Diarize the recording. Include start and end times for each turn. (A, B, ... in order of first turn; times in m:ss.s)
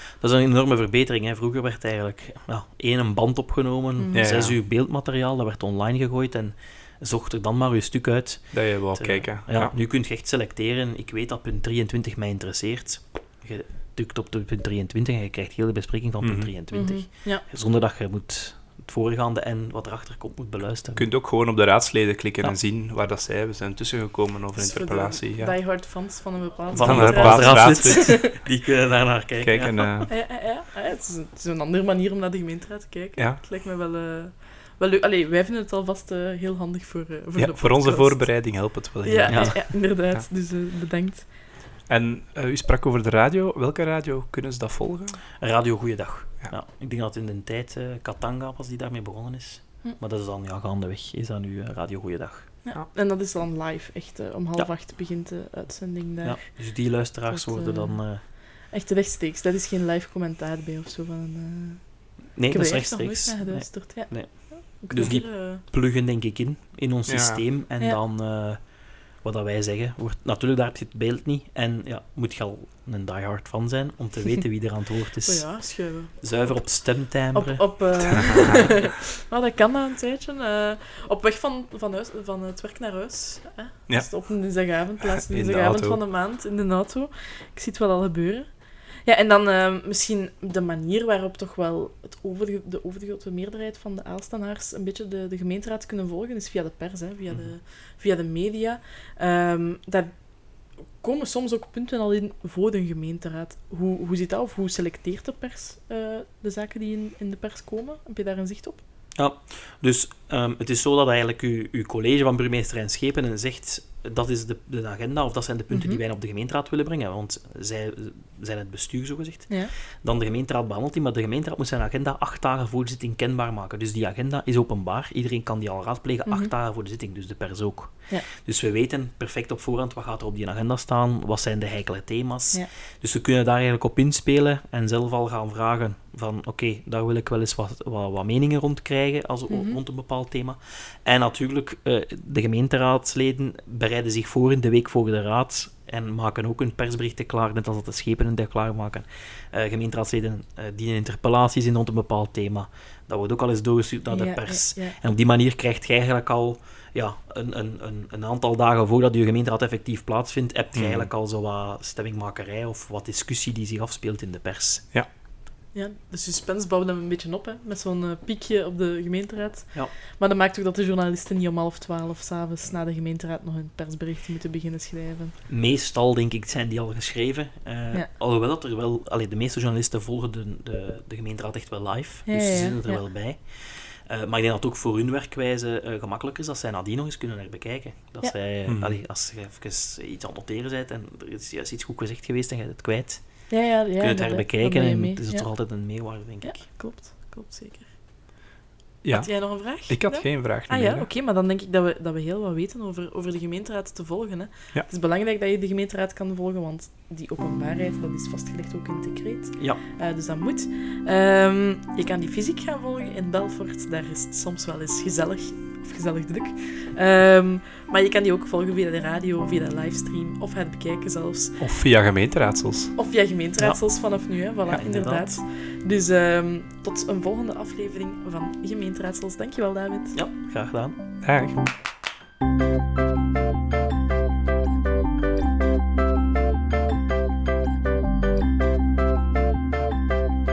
0:00.2-0:21.0 A
0:04.0-0:04.3 B
0:04.1-0:04.6 C
0:08.5-0:09.7 C
0:16.2-0:16.5 C
0:16.7-0:17.4 B
0:20.9-0:25.6 C
0:24.5-0:28.1 B
0:26.7-0:28.2 C
0:26.7-0:30.1 A
0:29.4-0:30.1 C
0:30.1-0:41.3 B
0:33.2-0:33.4 C
0:37.3-0:40.3 C
0:39.3-0:39.6 A
0:41.9-0:45.2 C
0:45.4-0:52.6 A
0:52.6-1:05.6 B
0:56.2-0:58.2 A
1:02.3-1:18.3 A
1:07.0-1:07.4 C
1:15.2-1:48.8 B
1:18.2-1:18.6 C
1:23.9-1:26.0 C
1:37.3-1:37.5 A
1:49.1-2:44.9 A
1:55.7-1:56.0 B
2:06.2-2:06.5 B
2:19.5-2:19.8 B
2:34.1-2:35.0 B
2:40.7-2:41.1 C
2:45.7-2:55.3 B
2:55.5-3:16.6 A
3:02.2-3:03.0 B
3:08.6-3:09.0 C
3:13.5-3:18.0 B
3:19.0-3:21.1 C
3:19.1-3:41.7 B
3:41.6-3:43.0 C
3:43.0-3:50.2 B
3:43.6-3:45.4 A
3:50.1-3:50.9 A
3:51.2-3:51.6 C